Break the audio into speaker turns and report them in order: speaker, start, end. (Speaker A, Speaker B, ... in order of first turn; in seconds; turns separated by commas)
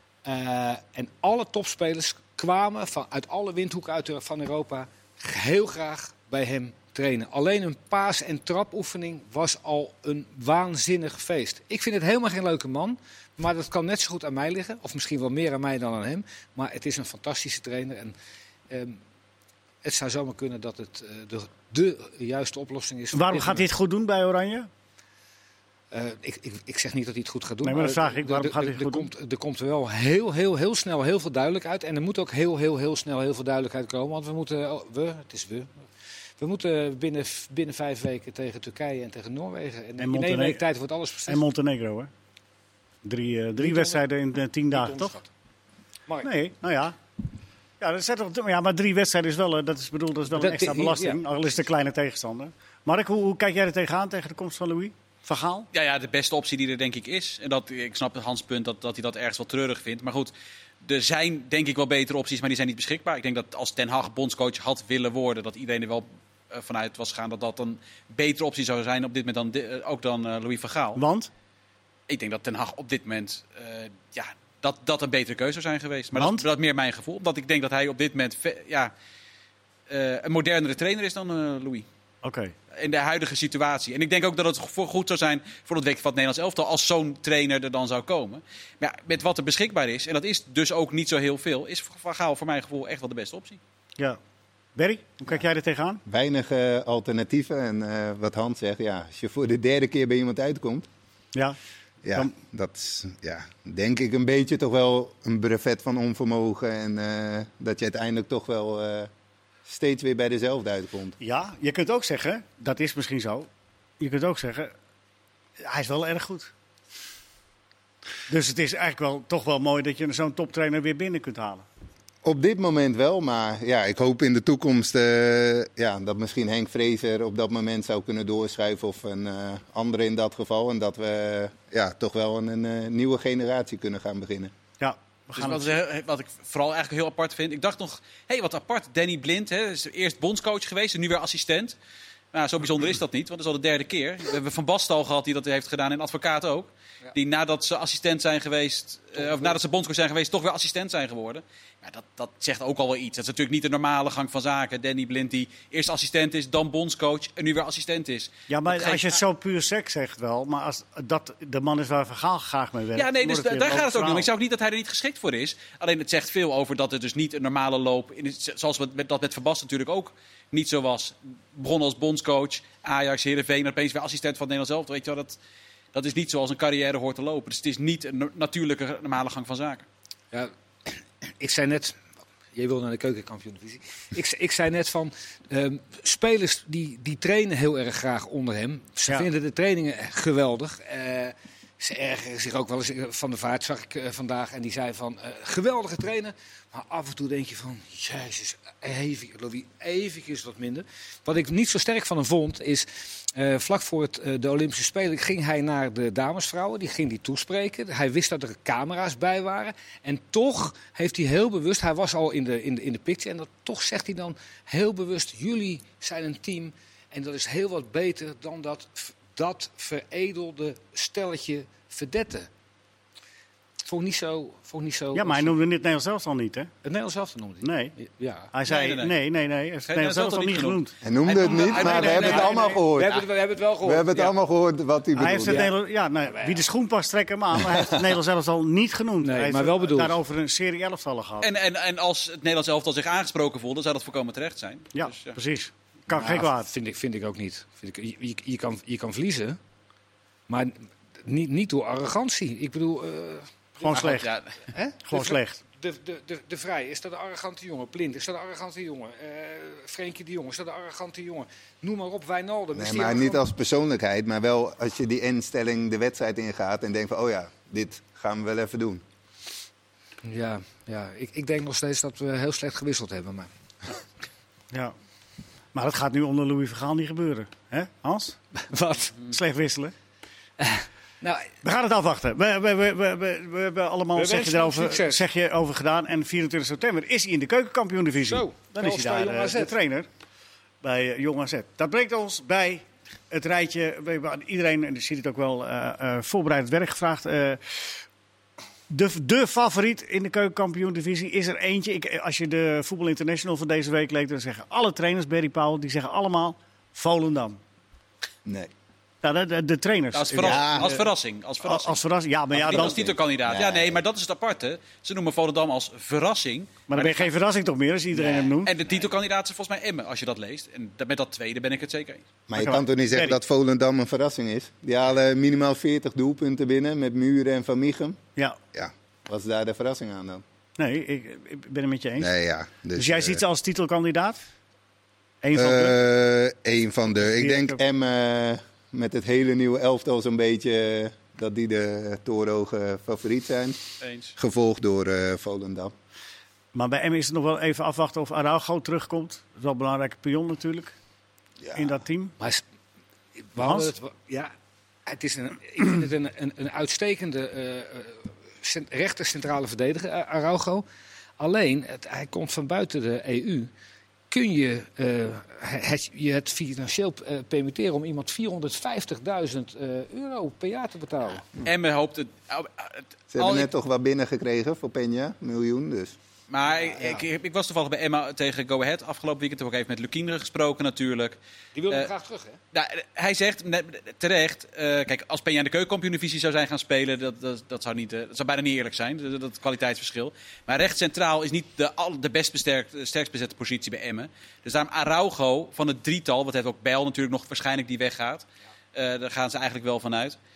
Speaker A: 0.2-18.1, Speaker A: 18.7-19.0, Speaker A: 19.8-23.7, Speaker B: 23.1-24.7, Speaker A: 25.9-35.8, Speaker B: 27.6-29.1, Speaker A: 36.4-41.4, Speaker B: 40.0-40.6, Speaker B: 41.3-42.1, Speaker B: 43.0-45.1, Speaker A: 43.6-44.0, Speaker A: 44.7-45.3, Speaker B: 46.2-47.0, Speaker B: 47.8-55.7, Speaker A: 50.3-51.2, Speaker C: 55.7-60.3, Speaker C: 60.8-71.0, Speaker B: 71.0-71.3, Speaker C: 72.1-78.9, Speaker B: 76.1-76.5, Speaker C: 79.9-81.8, Speaker B: 82.2-82.5, Speaker C: 82.7-93.6, Speaker B: 94.8-96.0, Speaker D: 96.0-100.8, Speaker D: 102.0-109.1, Speaker D: 109.7-111.2, Speaker B: 111.2-113.5, Speaker B: 114.0-114.7, Speaker B: 115.6-116.5, Speaker B: 118.3-121.6, Speaker D: 122.2-134.5, Speaker B: 134.8-135.8, Speaker C: 135.4-141.8, Speaker C: 142.3-159.2, Speaker A: 149.2-149.5, Speaker B: 158.5-164.3, Speaker C: 162.9-175.4, Speaker C: 175.9-179.8, Speaker A: 180.3-182.0, Speaker A: 182.5-222.5, Speaker A: 223.8-225.5, Speaker B: 225.1-226.7, Speaker A: 226.8-228.5, Speaker B: 227.6-227.9, Speaker B: 228.5-230.9, Speaker C: 228.7-229.2, Speaker C: 229.8-232.6, Speaker D: 231.0-233.2, Speaker B: 231.5-232.8, Speaker A: 231.8-234.3, Speaker D: 233.8-235.7, Speaker B: 235.2-241.5, Speaker A: 235.4-235.7, Speaker A: 236.3-236.6, Speaker A: 239.2-240.2, Speaker C: 241.4-245.4, Speaker B: 244.9-246.7, Speaker A: 246.1-249.6, Speaker A: 250.5-263.4, Speaker B: 253.8-254.3, Speaker C: 253.9-254.6, Speaker B: 255.1-255.6, Speaker D: 262.7-269.0, Speaker A: 270.2-273.5, Speaker B: 275.7-278.4, Speaker A: 278.6-279.1, Speaker B: 279.2-279.9, Speaker A: 280.6-281.5, Speaker B: 281.6-290.1, Speaker A: 284.1-285.2, Speaker A: 288.2-289.8, Speaker B: 290.8-298.0, Speaker B: 298.9-307.6, Speaker D: 308.4-308.7, Speaker B: 309.2-311.0, Speaker C: 310.1-312.0, Speaker D: 310.4-310.9, Speaker B: 311.6-313.1, Speaker C: 312.5-317.3, Speaker D: 313.5-314.0, Speaker B: 316.9-318.8, Speaker A: 318.1-318.4, Speaker C: 318.6-322.2, Speaker D: 322.5-328.2, Speaker B: 322.6-323.4, Speaker D: 328.7-330.4, Speaker B: 330.8-332.3, Speaker D: 332.2-333.4, Speaker B: 332.9-334.4, Speaker B: 335.4-335.9, Speaker D: 335.5-343.8, Speaker B: 337.2-337.8, Speaker C: 344.0-344.3, Speaker D: 344.4-345.9, Speaker B: 346.7-350.9, Speaker D: 351.6-351.9, Speaker B: 351.7-352.3, Speaker A: 353.4-354.5, Speaker A: 355.1-360.8, Speaker A: 361.4-363.7, Speaker A: 364.3-371.4, Speaker C: 371.6-373.7, Speaker D: 373.3-376.1, Speaker C: 376.5-381.4, Speaker A: 376.7-377.2, Speaker A: 381.7-382.6, Speaker C: 382.7-400.4